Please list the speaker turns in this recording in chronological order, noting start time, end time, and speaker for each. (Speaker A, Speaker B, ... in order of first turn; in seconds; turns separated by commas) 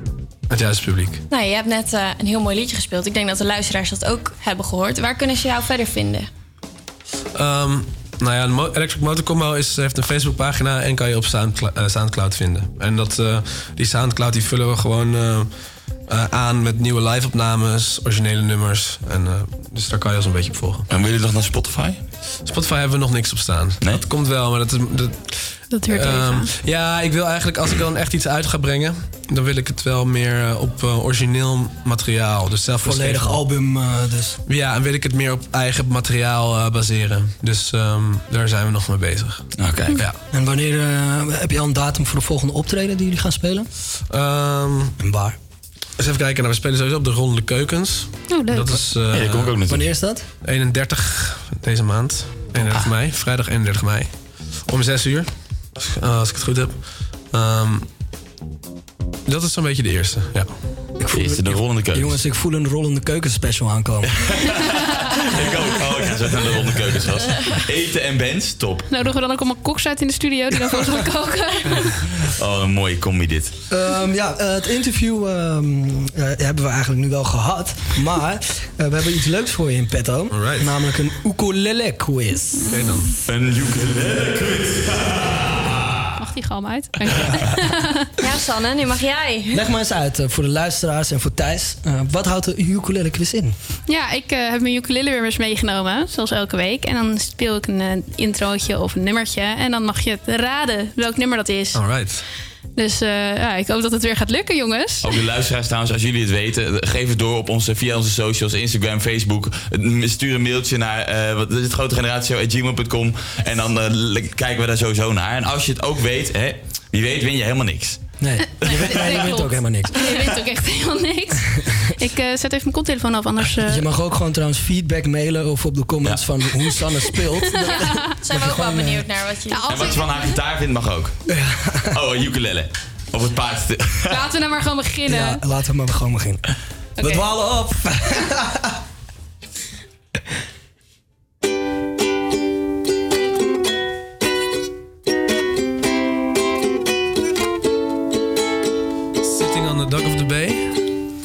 Speaker A: 0.5-1.2, Speaker B: 1.3-6.3, Speaker A: 7.3-15.5, Speaker A: 16.1-20.9, Speaker C: 20.9-22.0, Speaker A: 22.4-33.4, Speaker D: 25.7-26.5, Speaker E: 32.8-34.4, Speaker A: 34.5-40.2, Speaker C: 39.6-40.0, Speaker E: 40.3-43.7, Speaker A: 44.1-44.9, Speaker E: 45.0-45.4, Speaker A: 46.0-49.5, Speaker D: 48.3-48.8, Speaker C: 49.1-49.9, Speaker E: 49.7-50.2, Speaker A: 50.4-57.9, Speaker E: 52.6-52.9, Speaker A: 59.2-60.6, Speaker E: 61.0-64.5, Speaker C: 61.1-62.2, Speaker C: 64.2-64.6, Speaker C: 65.3-68.9, Speaker D: 68.9-71.9, Speaker E: 70.5-71.0, Speaker C: 72.3-73.5, Speaker E: 73.7-82.8, Speaker A: 80.3-80.7, Speaker A: 82.7-83.1, Speaker C: 83.2-85.4, Speaker D: 86.2-88.1, Speaker B: 88.2-89.6, Speaker E: 89.5-93.5, Speaker D: 93.9-102.1, Speaker A: 101.7-102.2, Speaker D: 102.8-105.1, Speaker C: 105.0-118.0, Speaker E: 118.2-120.1, Speaker C: 118.6-119.4, Speaker D: 118.6-123.8, Speaker E: 123.7-129.0, Speaker D: 127.6-128.0, Speaker B: 127.7-130.1, Speaker D: 129.5-130.3, Speaker C: 129.7-131.1, Speaker E: 131.3-131.9, Speaker C: 131.9-134.2, Speaker D: 134.1-135.4, Speaker E: 135.1-136.4, Speaker E: 137.0-138.6, Speaker D: 137.0-137.2, Speaker A: 149.2-150.7